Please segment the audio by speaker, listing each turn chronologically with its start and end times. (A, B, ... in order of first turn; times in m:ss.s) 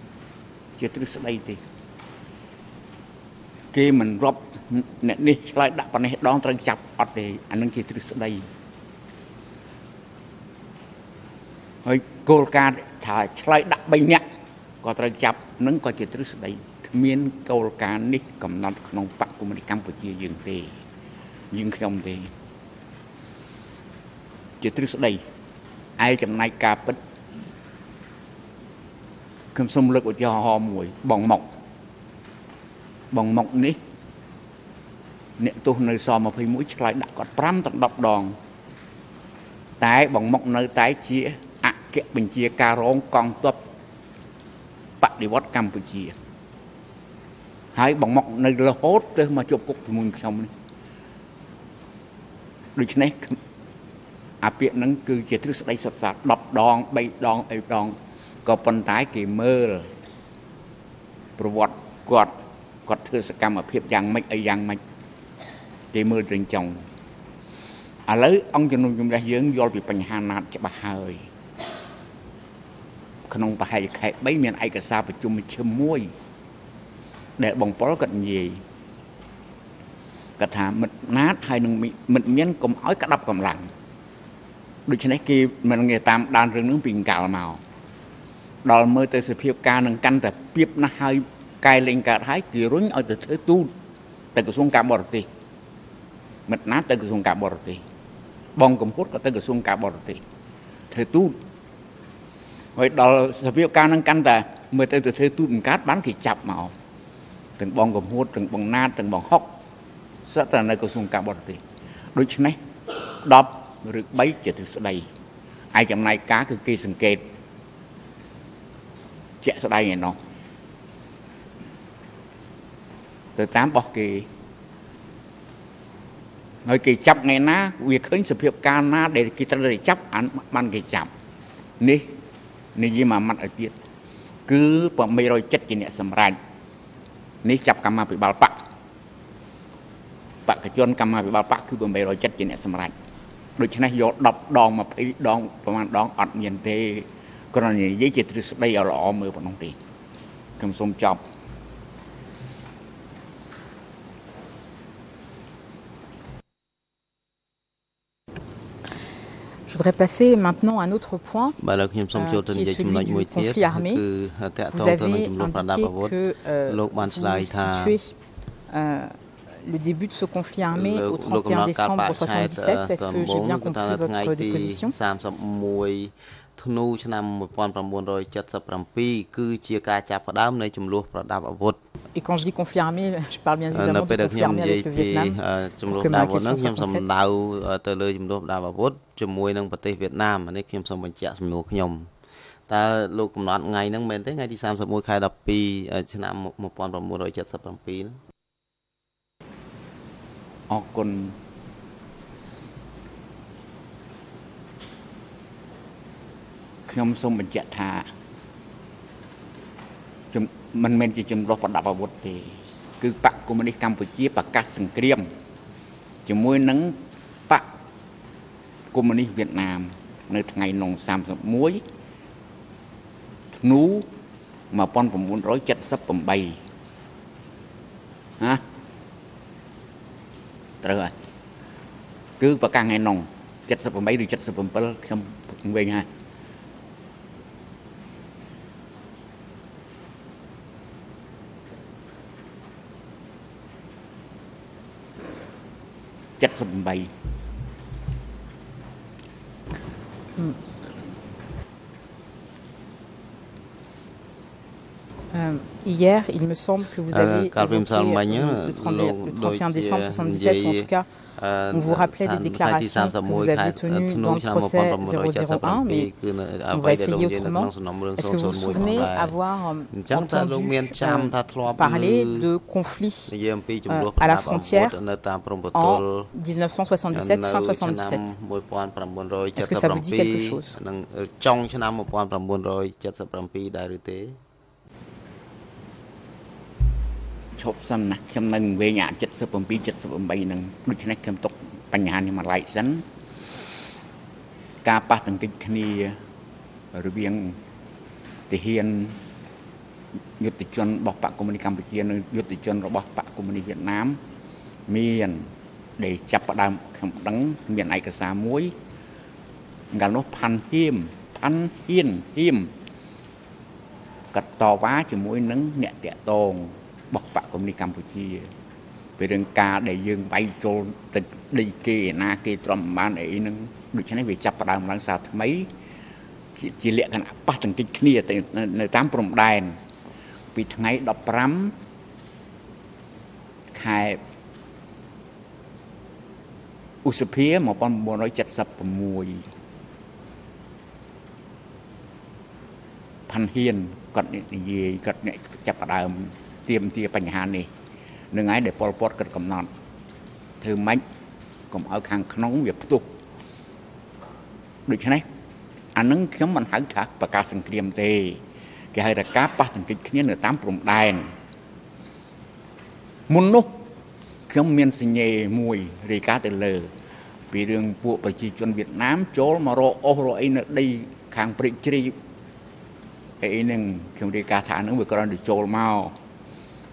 0:00.8-0:01.6 A
0:03.7-0:08.4 A
0:11.8-0:14.2 A
0:14.8-0:20.8 A
0:21.5-0:22.3 A
0:24.6-0:25.2 A
0:26.0-0:27.0 A
0:29.5-0:31.5 A
0:33.1-0:33.8 A
0:35.4-0:38.4 A
0:39.8-0:43.6 A
0:45.0-0:46.1 A
0:47.7-0:50.5 A
0:52.7-0:53.4 A
0:54.4-0:59.9 A
1:01.4-1:02.3 A
1:02.8-1:04.8 A
1:05.9-1:06.8 A
1:08.1-1:11.3 A
1:13.3-1:16.1 A
1:17.4-1:18.6 A
1:20.4-1:23.7 A
1:24.8-1:27.6 A
1:28.6-1:33.7 A
1:34.3-1:35.3 A
1:36.5-1:37.8 A
1:38.6-1:40.2 A
1:40.9-1:41.4 A
1:42.8-1:46.7 A
1:47.6-1:49.6 A
1:50.3-1:51.6 A
1:52.1-1:52.6 A
1:53.2-1:55.1 A
1:55.7-1:57.3 A
1:59.4-2:00.2 A
2:03.4-2:04.3 A
2:06.6-2:11.1 A
2:11.8-2:12.1 A
2:12.8-2:13.7 A
2:14.4-2:16.4 A
2:17.4-2:18.6 A
2:20.4-2:22.9 A
2:23.6-2:29.8 A
2:30.6-2:31.2 A
2:39.7-2:41.6 B
2:41.6-2:46.2 C
2:42.1-2:44.0 B
2:44.7-2:48.1 B
2:46.7-2:48.0 C
2:48.7-2:54.9 B
2:50.7-3:01.8 C
3:02.1-3:05.4 B
3:03.7-3:12.1 C
3:05.9-3:07.1 B
3:12.7-3:18.2 C
3:20.7-3:21.4 A
3:26.9-3:28.1 A
3:30.3-3:35.3 A
3:36.2-3:37.7 A
3:38.9-3:41.8 A
3:43.5-3:44.1 A
3:44.7-3:46.6 A
3:50.8-3:51.2 A
3:52.4-3:56.1 A
4:06.4-4:07.1 A
4:15.3-4:21.0 B
4:17.1-4:29.3 C
4:21.7-4:26.1 B
4:26.7-4:33.3 B
4:29.9-4:32.5 C
4:33.3-4:36.3 C
4:33.9-4:35.0 B
4:35.7-4:38.3 B
4:37.1-4:44.4 C
4:39.6-4:40.8 B
4:47.6-4:53.0 A
4:54.8-4:56.2 A
4:56.9-4:57.6 A
4:58.5-4:59.2 A
5:00.4-5:04.2 A
5:04.9-5:05.5 A
5:06.0-5:08.7 A
5:09.9-5:12.7 A
5:14.3-5:18.5 A
5:19.2-5:25.7 A
5:26.5-5:29.8 A
5:30.5-5:31.7 A
5:33.7-5:34.2 A
5:37.0-5:39.5 A
5:43.3-5:47.7 A
5:48.3-5:49.7 A
5:50.6-5:51.0 A
5:51.7-5:53.1 A
5:54.8-5:55.2 A
5:55.9-5:58.4 A
5:58.9-6:01.3 A
6:03.3-6:03.8 A
6:04.5-6:06.9 A
6:07.5-6:12.2 A
6:13.4-6:16.1 A